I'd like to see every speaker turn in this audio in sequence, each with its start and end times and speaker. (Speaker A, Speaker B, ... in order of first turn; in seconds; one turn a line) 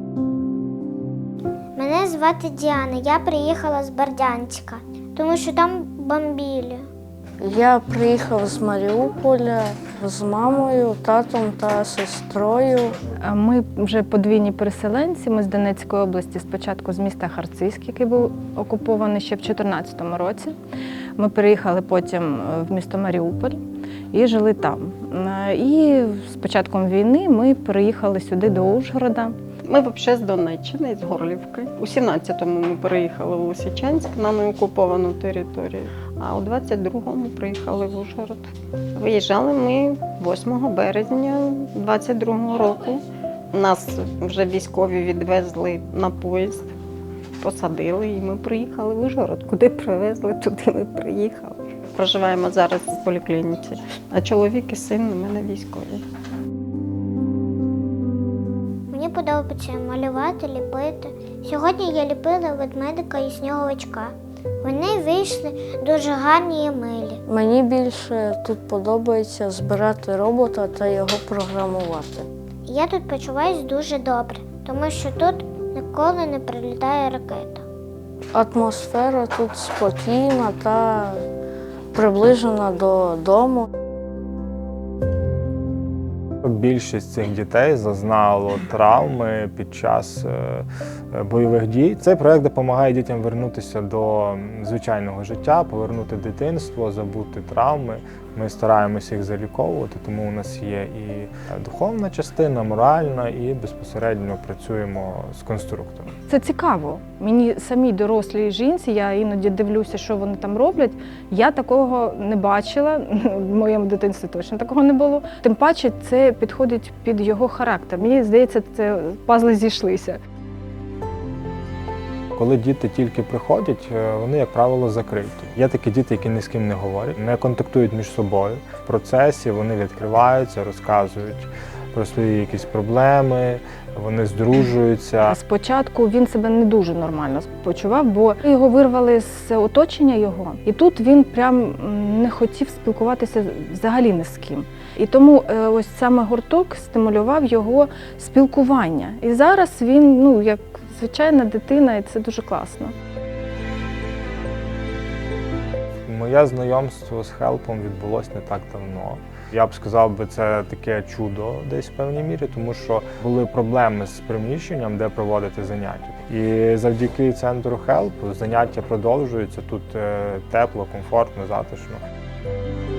Speaker A: 1.8-6.9
Speaker B: 7.4-12.9
Speaker C: 13.2-20.6
Speaker C: 21.2-29.3
Speaker D: 29.6-38.4
Speaker D: 39.0-46.7
Speaker D: 47.4-56.0
Speaker A: 58.9-67.2
Speaker B: 67.3-72.2
Speaker A: 72.7-77.6
Speaker B: 78.3-81.2
Speaker B: 81.9-83.7
Speaker E: 86.4-106.1
Speaker C: 106.3-120.2
Speaker E: 122.3-135.3
Speaker C: 135.3-152.9
Speaker E: 156.1-172.0